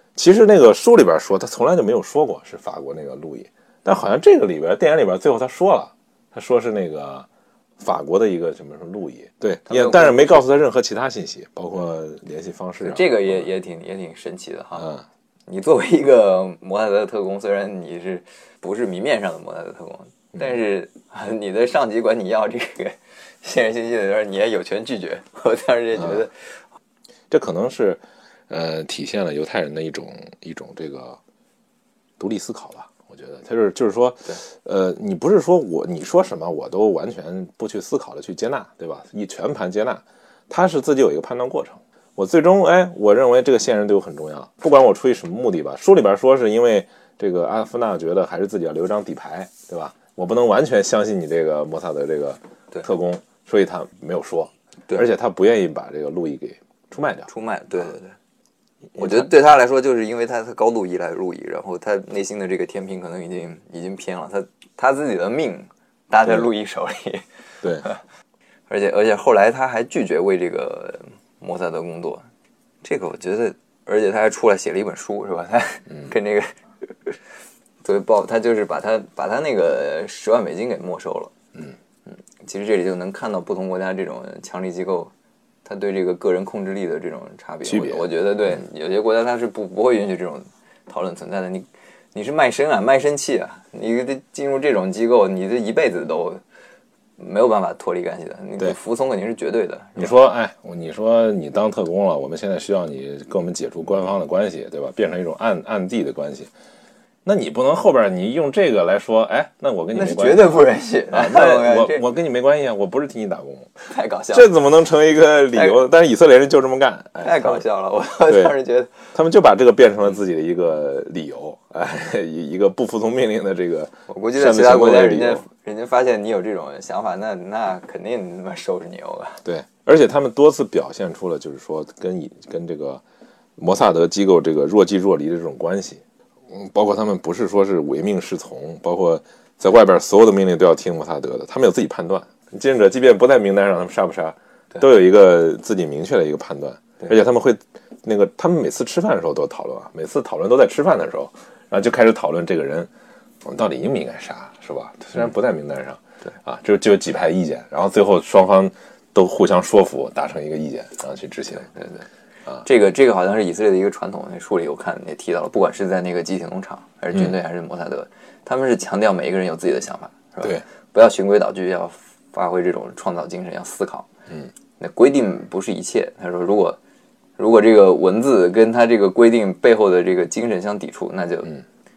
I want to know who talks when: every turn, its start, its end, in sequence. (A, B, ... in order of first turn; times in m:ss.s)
0:00.2-0:07.3 A
0:07.8-0:13.5 A
0:09.7-0:10.4 B
0:12.8-0:14.9 B
0:14.8-0:15.0 A
0:15.5-0:26.6 B
0:26.0-0:26.2 A
0:27.3-0:31.2 A
0:32.2-0:57.3 A
0:57.3-0:58.2 B
0:59.0-0:59.3 A
0:59.0-1:07.2 B
1:08.7-1:12.3 B
1:12.8-1:17.2 B
1:17.8-1:21.3 B
1:22.1-1:25.1 B
1:25.6-1:36.4 B
1:27.6-1:28.1 A
1:37.2-1:40.1 B
1:40.0-1:46.5 A
1:47.2-1:53.7 A
1:49.9-1:52.0 B
1:53.9-1:54.5 B
1:54.3-1:57.6 A
1:55.5-1:55.8 B
1:57.2-1:59.1 B
1:58.3-1:58.5 A
1:59.1-2:05.4 A
2:04.1-2:09.4 B
2:09.4-2:13.0 A
2:13.6-2:32.9 A
2:33.4-2:41.7 A
2:41.6-2:42.1 B
2:42.6-2:54.1 B
2:54.8-2:56.8 B
2:57.4-3:01.5 B